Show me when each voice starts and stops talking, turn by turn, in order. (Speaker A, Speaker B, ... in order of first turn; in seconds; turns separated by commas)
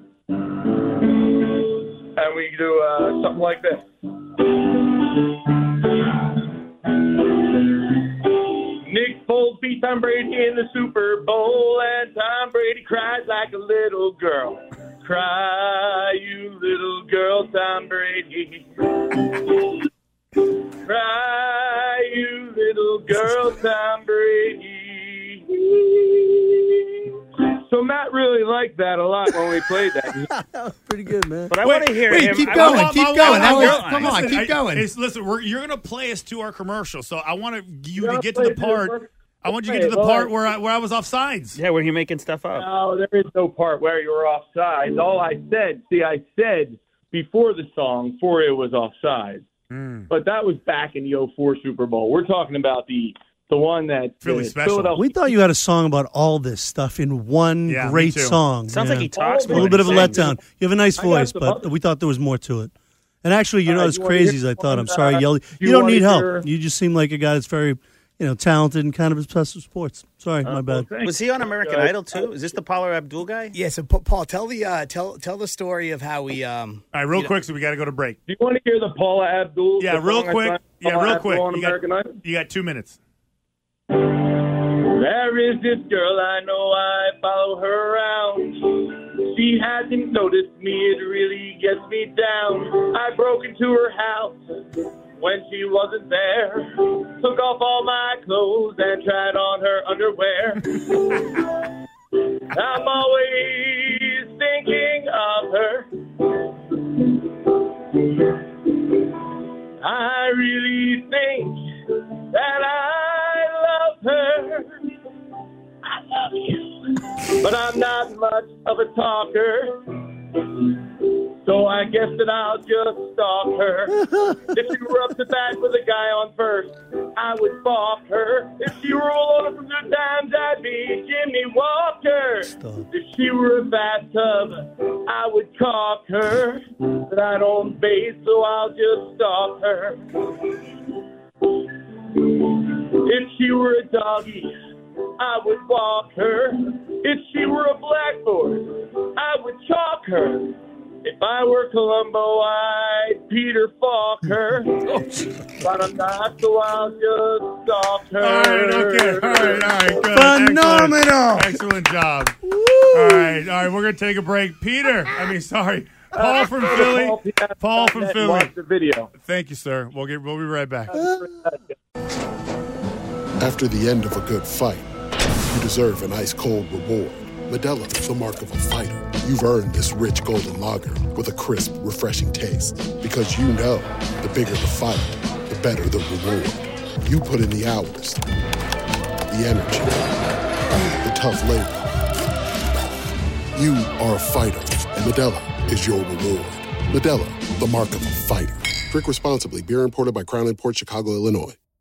Speaker A: 0.4-19.8, Speaker A: 20.4-30.3, Speaker B: 30.2-31.6, Speaker C: 31.5-34.3, Speaker D: 31.6-41.6, Speaker E: 32.0-34.9, Speaker A: 37.9-40.3, Speaker C: 41.5-42.7, Speaker A: 42.5-49.5, Speaker D: 49.7-50.1, Speaker A: 50.1-55.1, Speaker D: 54.2-55.0, Speaker B: 55.0-62.7, Speaker D: 57.6-58.4, Speaker C: 58.7-60.4, Speaker A: 59.1-60.2, Speaker A: 61.0-61.7, Speaker B: 63.2-70.9, Speaker A: 63.6-66.5, Speaker C: 70.4-73.6, Speaker A: 70.9-72.3, Speaker E: 73.5-76.8, Speaker D: 76.9-78.2, Speaker A: 78.3-82.2, Speaker D: 79.8-83.0, Speaker A: 83.9-101.5, Speaker A: 102.5-109.3, Speaker A: 109.8-114.9, Speaker A: 115.8-140.7, Speaker B: 132.4-132.8, Speaker A: 141.4-144.6, Speaker A: 145.2-154.9, Speaker A: 155.5-160.2, Speaker D: 158.2-162.4, Speaker B: 160.1-161.6, Speaker B: 162.4-163.5, Speaker D: 162.9-168.5, Speaker A: 166.1-169.1, Speaker D: 169.2-170.9, Speaker A: 170.9-171.7, Speaker B: 170.9-171.3, Speaker F: 173.4-174.9, Speaker F: 175.5-188.2, Speaker F: 189.3-190.2, Speaker F: 190.9-191.9, Speaker F: 193.5-201.6